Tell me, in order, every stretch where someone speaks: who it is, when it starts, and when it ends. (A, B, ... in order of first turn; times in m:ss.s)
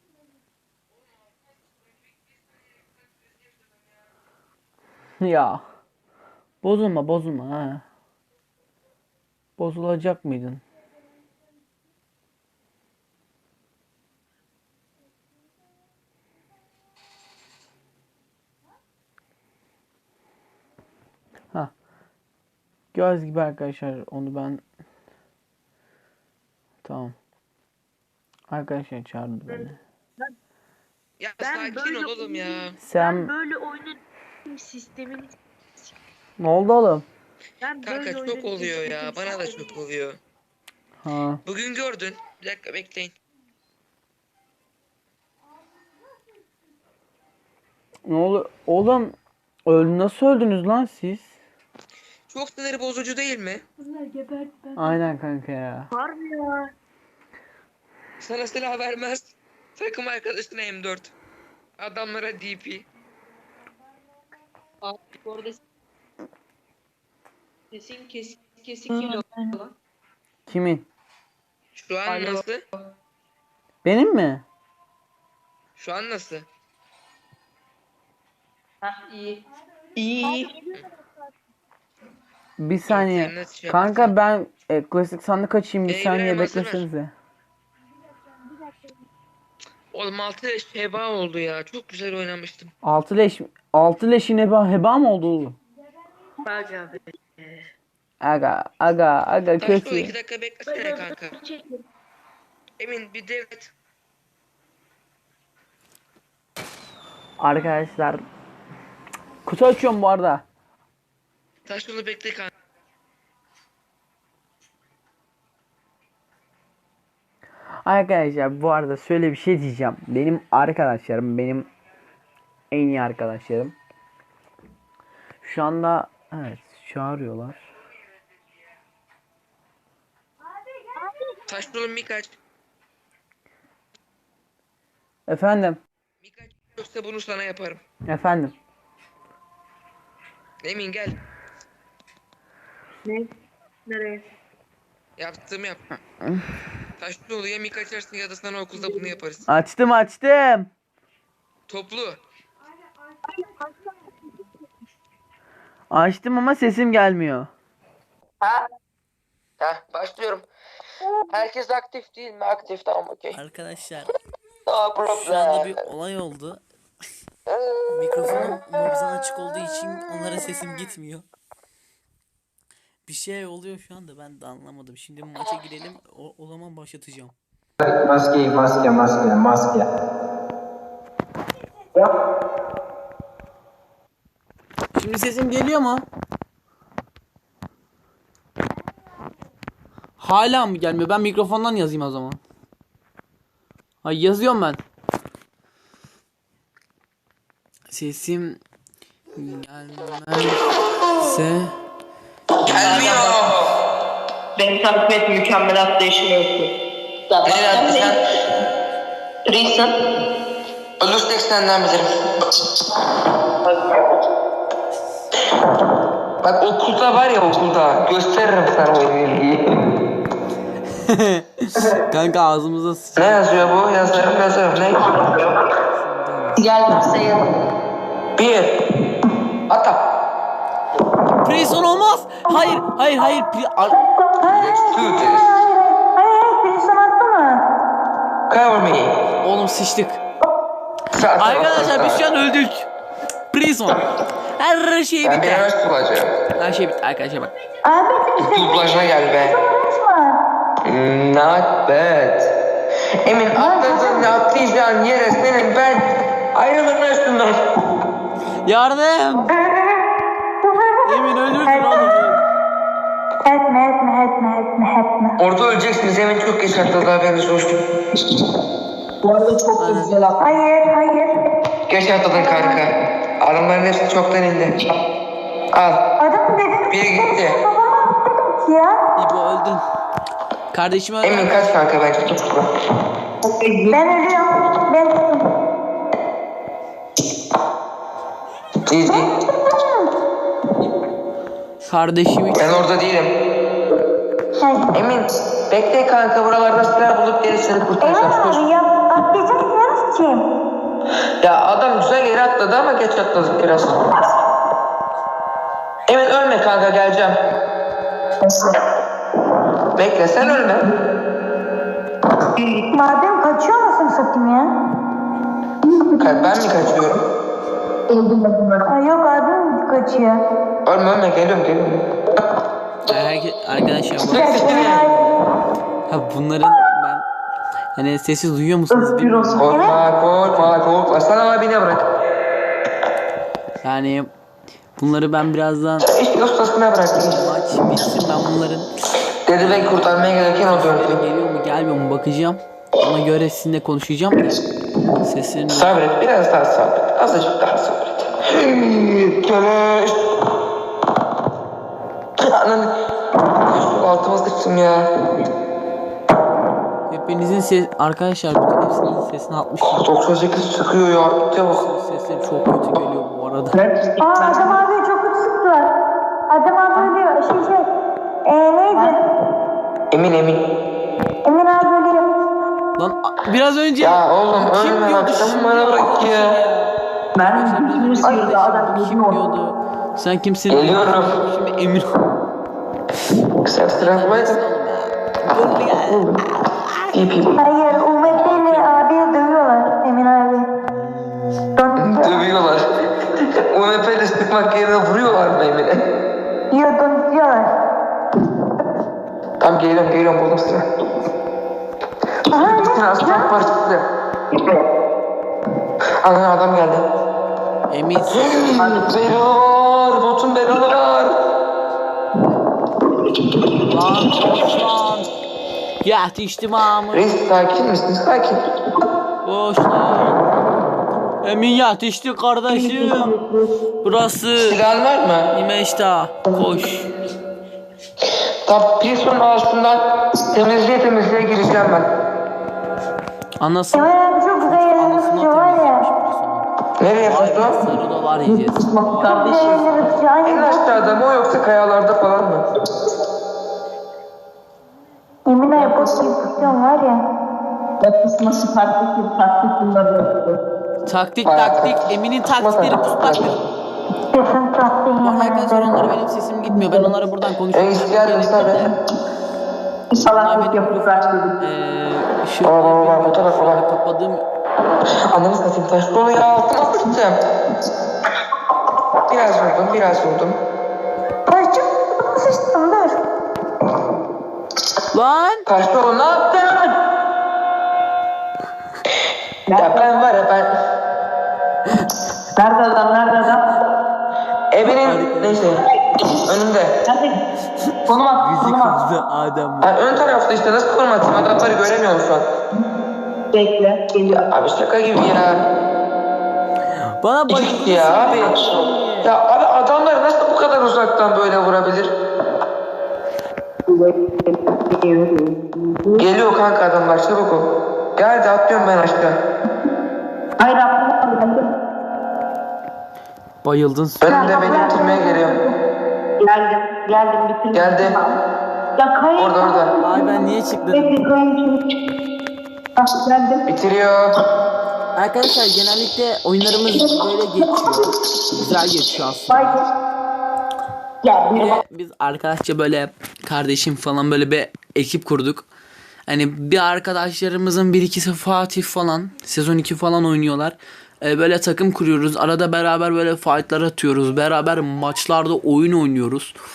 0:05.2-0:05.6 A
0:06.6-0:07.8 A
0:09.6-0:10.6 A
0:22.9-0:24.6 A
0:26.8-0:27.2 A
0:28.5-0:29.8 A
0:31.2-0:32.7 B
0:31.4-0:35.3 C
0:32.8-0:33.3 A
0:36.4-0:37.0 A
0:37.6-0:39.7 C
0:37.8-0:40.2 B
0:41.0-0:41.4 A
0:41.4-0:43.1 B
0:48.0-0:49.1 A
0:49.7-0:51.3 A
0:52.3-0:53.6 B
0:54.8-0:55.9 A
0:55.9-0:56.6 C
0:58.2-1:01.1 B
1:01.8-1:02.8 B
1:04.8-1:05.6 C
1:07.7-1:09.2 C
1:10.5-1:10.9 A
1:11.7-1:12.6 B
1:12.1-1:12.4 C
1:13.8-1:14.4 A
1:15.8-1:16.5 B
1:18.8-1:19.4 C
1:20.0-1:20.7 C
1:22.6-1:27.1 A
1:22.9-1:24.1 B
1:25.9-1:26.8 B
1:29.9-1:32.7 B
1:32.8-1:35.6 A
1:36.4-1:37.0 C
1:38.2-1:40.1 A
1:39.6-1:41.4 B
1:40.7-1:41.8 C
1:42.8-1:43.7 B
1:47.4-1:48.2 A
1:49.4-1:50.4 A
1:51.6-1:52.5 B
1:57.8-2:01.7 A
2:02.7-2:03.8 A
2:05.4-2:07.6 A
2:11.5-2:12.4 B
2:15.3-2:15.8 A
2:16.2-2:17.8 B
2:18.1-2:18.5 A
2:20.6-2:21.2 B
2:23.9-2:24.2 C
2:25.2-2:25.8 B
2:27.0-2:29.4 B
2:29.5-2:30.7 A
2:31.7-2:32.2 B
2:33.3-2:33.9 C
2:35.9-2:37.5 A
2:39.6-2:40.4 B
2:41.3-2:43.4 B
2:43.3-2:44.1 A
2:44.6-2:45.8 B
2:45.1-2:46.6 A
2:47.9-2:51.2 A
2:53.0-2:57.3 A
2:57.8-2:59.9 D
3:04.9-3:06.0 A
3:10.2-3:12.4 A
3:14.0-3:14.8 A
3:17.9-3:18.6 A
3:19.4-3:20.6 A
3:21.2-3:21.7 A
3:22.6-3:23.4 A
3:22.6-3:23.7 B
3:24.6-3:26.7 C
3:27.3-3:28.1 C
3:27.4-3:28.2 B
3:29.4-3:29.9 C
3:31.0-3:32.2 B
3:33.6-3:34.0 C
3:36.4-3:39.8 B
3:40.9-3:43.9 A
3:43.2-3:45.5 B
3:45.9-3:47.0 A
3:46.6-3:47.5 C
3:48.4-3:48.8 B
3:49.7-3:50.0 B
3:51.4-3:54.0 A
3:53.9-3:57.6 E
3:54.4-3:55.6 B
3:58.5-3:59.1 B
3:59.4-4:00.2 A
4:01.1-4:02.2 B
4:01.3-4:02.9 A
4:03.5-4:04.0 A
4:04.6-4:05.6 A
4:05.2-4:06.4 B
4:06.5-4:07.5 A
4:07.8-4:10.4 E
4:08.4-4:09.6 B
4:10.8-4:12.5 B
4:13.2-4:17.6 B
4:13.6-4:14.3 E
4:18.6-4:19.5 A
4:20.6-4:22.1 E
4:21.0-4:22.4 A
4:23.4-4:25.4 E
4:25.4-4:27.8 B
4:29.2-4:30.6 C
4:29.8-4:30.2 A
4:30.4-4:31.4 E
4:31.9-4:34.8 B
4:32.3-4:32.8 E
4:35.7-4:36.0 B
4:36.2-4:39.0 E
4:36.9-4:37.6 B
4:39.2-4:39.8 A
4:40.7-4:41.7 A
4:41.2-4:42.7 B
4:43.4-4:44.0 C
4:43.9-4:45.5 E
4:48.8-4:49.3 B
4:49.0-4:50.1 E
4:51.8-4:52.8 A
4:52.5-4:53.3 B
4:54.6-4:54.9 E
4:54.9-4:58.7 B
4:58.0-5:00.4 E
5:01.4-5:04.0 B
5:06.1-5:07.4 B
5:08.4-5:08.8 C
5:10.0-5:10.9 B
5:10.4-5:10.9 C
5:12.5-5:12.9 C
5:12.9-5:14.7 E
5:15.8-5:16.4 C
5:16.2-5:17.2 B
5:18.1-5:18.9 C
5:18.9-5:20.4 E
5:20.8-5:22.0 B
5:23.0-5:25.4 A
5:24.3-5:25.0 B
5:24.3-5:25.3 E
5:26.1-5:27.2 A
5:27.9-5:30.8 A
5:28.9-5:29.9 C
5:29.6-5:32.0 B
5:29.7-5:30.0 E
5:33.8-5:34.3 A
5:35.0-5:36.1 A
5:36.0-5:37.4 B
5:37.2-5:38.9 A
5:39.4-5:41.2 B
5:39.6-5:44.6 A
5:45.2-5:46.0 A
5:45.7-5:50.3 B
5:52.4-5:52.9 B
5:53.6-5:55.0 B
5:57.1-6:00.0 A
5:59.8-6:01.8 B
6:01.7-6:03.8 A
6:03.7-6:04.8 C
6:04.2-6:05.9 E
6:06.5-6:07.9 E
6:08.5-6:09.2 E
6:10.1-6:10.6 B
6:11.4-6:12.2 E
6:13.0-6:22.1 A
6:14.0-6:16.6 B
6:17.3-6:19.4 C
6:20.7-6:21.4 B
6:23.6-6:24.6 B
6:23.9-6:29.0 A
6:25.5-6:26.4 B
6:27.1-6:27.6 B
6:27.6-6:30.7 E
6:30.9-6:31.9 A
6:31.8-6:32.4 E
6:32.0-6:32.9 B
6:33.4-6:36.0 B
6:36.7-6:37.7 E
6:39.6-6:40.8 B
6:42.5-6:43.5 E
6:42.6-6:44.1 B
6:46.2-6:47.1 B
6:47.9-6:48.7 A
6:48.4-6:51.3 B
6:53.9-6:55.3 A
6:56.0-6:57.2 A
6:57.1-6:58.7 B
6:59.4-7:00.4 A
7:01.4-7:03.4 A
7:02.7-7:03.7 C
7:04.0-7:04.8 A
7:04.6-7:05.5 B
7:05.5-7:07.1 A
7:08.6-7:12.1 B
7:13.6-7:20.0 A
7:13.9-7:16.0 E
7:17.0-7:17.8 B
7:18.4-7:19.9 C
7:19.2-7:21.2 E
7:20.4-7:22.6 B
7:25.4-7:27.2 E
7:25.7-7:26.7 C
7:28.0-7:30.6 C
7:31.0-7:33.6 A
7:31.4-7:31.9 B
7:32.4-7:33.6 B
7:34.3-7:35.9 E
7:35.2-7:38.9 A
7:37.7-7:38.9 B
7:40.1-7:41.5 C
7:40.2-7:44.4 A
7:42.6-7:43.8 B
7:45.3-7:47.4 B
7:49.3-7:50.6 B
7:51.5-7:53.2 E
7:55.1-7:55.6 A
7:55.7-7:57.0 B
7:59.7-8:00.2 C
7:59.7-8:00.7 B
8:02.5-8:03.6 C
8:04.7-8:05.8 B
8:04.8-8:05.7 A
8:05.9-8:06.4 C
8:06.4-8:06.9 B
8:07.0-8:07.4 C
8:07.8-8:10.2 A
8:08.1-8:08.9 C
8:09.8-8:12.5 B
8:13.5-8:14.4 C
8:14.2-8:15.6 B
8:17.2-8:19.3 A
8:17.5-8:22.1 B
8:23.9-8:26.3 C
8:26.2-8:29.4 B
8:30.6-8:31.6 C
8:33.6-8:34.5 A
8:34.2-8:35.6 B
8:34.2-8:35.7 E
8:34.6-8:35.0 C
8:36.4-8:38.4 C
8:37.7-8:38.2 B
8:39.0-8:40.3 C
8:39.4-8:39.9 B
8:40.0-8:41.2 A
8:40.9-8:41.8 C
8:43.0-8:43.6 C
8:43.7-8:44.3 B
8:45.1-8:49.8 A
8:49.5-8:49.8 C
8:51.2-8:51.8 C
8:51.5-8:55.7 A
8:56.3-9:06.5 A